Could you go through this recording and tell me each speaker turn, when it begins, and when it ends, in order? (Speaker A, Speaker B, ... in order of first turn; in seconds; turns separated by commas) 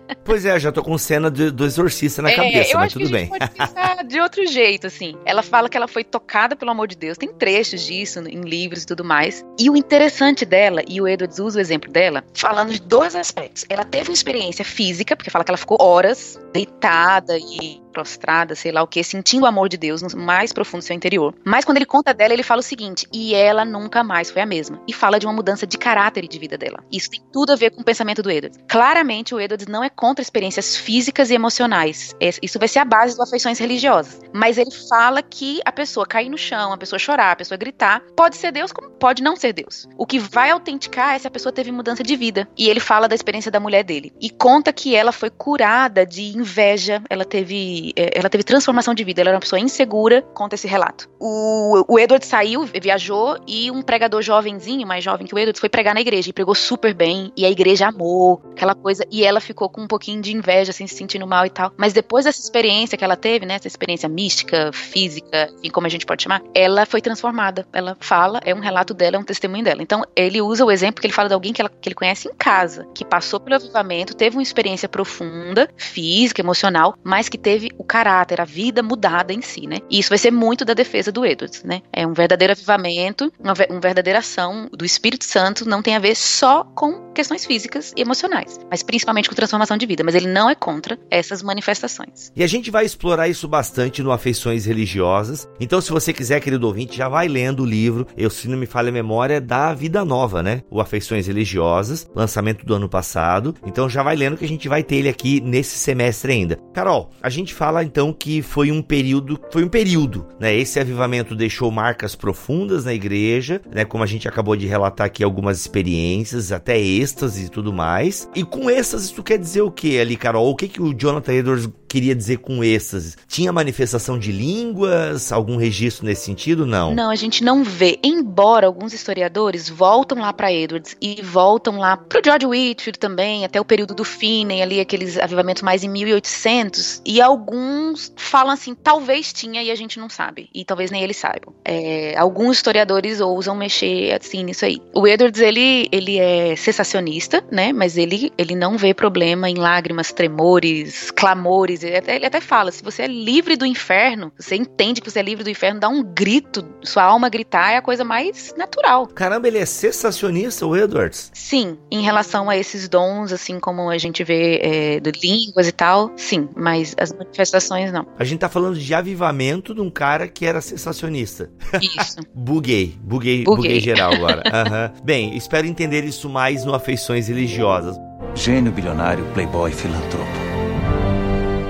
Speaker A: 0.2-3.7, Speaker B: 2.3-92.3, Speaker A: 92.3-127.0, Speaker B: 126.9-159.1, Speaker A: 159.1-161.3, Speaker B: 161.3-168.1, Speaker A: 168.2-178.0, Speaker B: 171.8-172.2, Speaker B: 173.4-174.5, Speaker C: 178.3-180.4